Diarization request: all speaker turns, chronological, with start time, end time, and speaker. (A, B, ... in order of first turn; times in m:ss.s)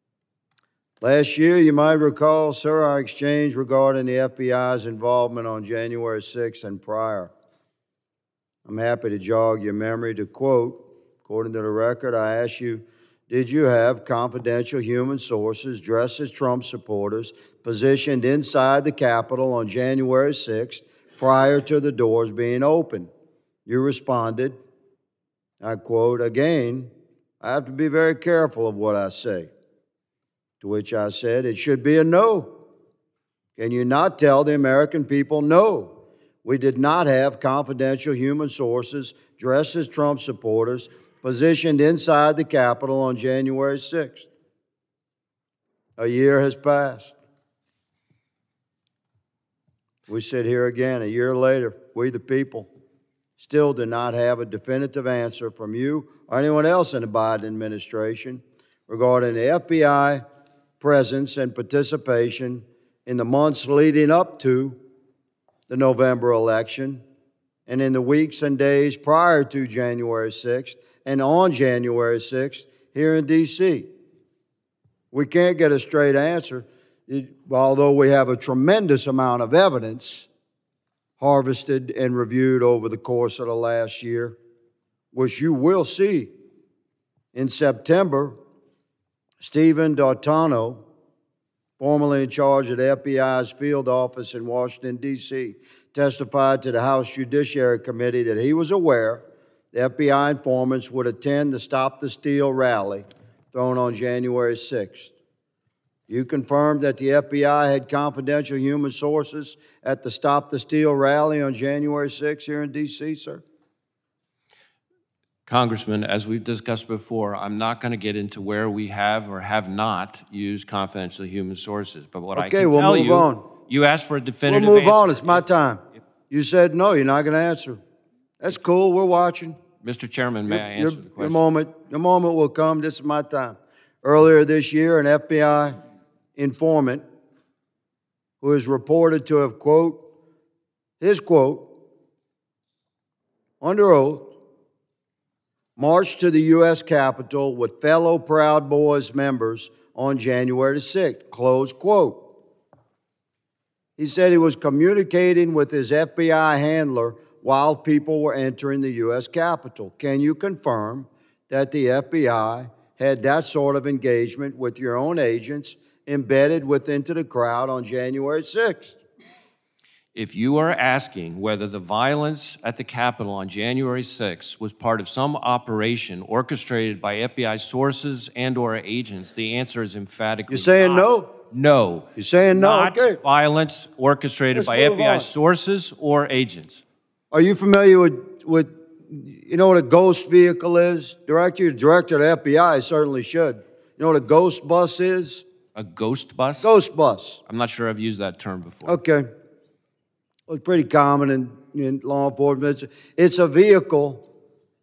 0:01.0-0:07.3 A
0:08.6-0:23.1 A
0:23.7-0:24.6 A
0:25.6-0:26.9 A
0:27.4-0:29.5 A
0:30.6-0:32.5 A
0:33.6-0:44.3 A
0:46.0-0:47.2 A
0:50.1-0:52.7 A
0:53.4-1:00.2 A
1:00.8-1:04.8 A
1:05.7-1:07.0 A
1:07.7-1:13.9 A
1:15.1-1:20.3 A
1:21.2-1:24.4 A
1:25.1-1:26.3 A
1:27.3-1:28.4 A
1:29.4-1:30.8 A
1:31.8-1:45.2 A
1:46.1-1:53.4 A
1:55.5-2:05.4 B
2:02.4-2:03.4 A
2:04.5-2:07.8 A
2:08.4-2:09.6 A
2:09.8-2:11.4 B
2:10.5-2:15.8 A
2:16.4-2:17.0 A
2:18.4-2:20.0 A
2:21.0-2:21.7 A
2:23.6-2:24.4 A
2:25.8-2:32.2 A
2:34.0-2:49.0 A
2:50.1-3:06.8 B
3:00.5-3:01.3 A
3:02.2-3:03.2 A
3:04.5-3:05.3 A
3:07.3-3:15.4 A
3:15.8-3:16.7 B
3:16.6-3:17.4 A
3:17.5-3:19.0 B
3:18.8-3:19.3 A
3:20.5-3:24.2 A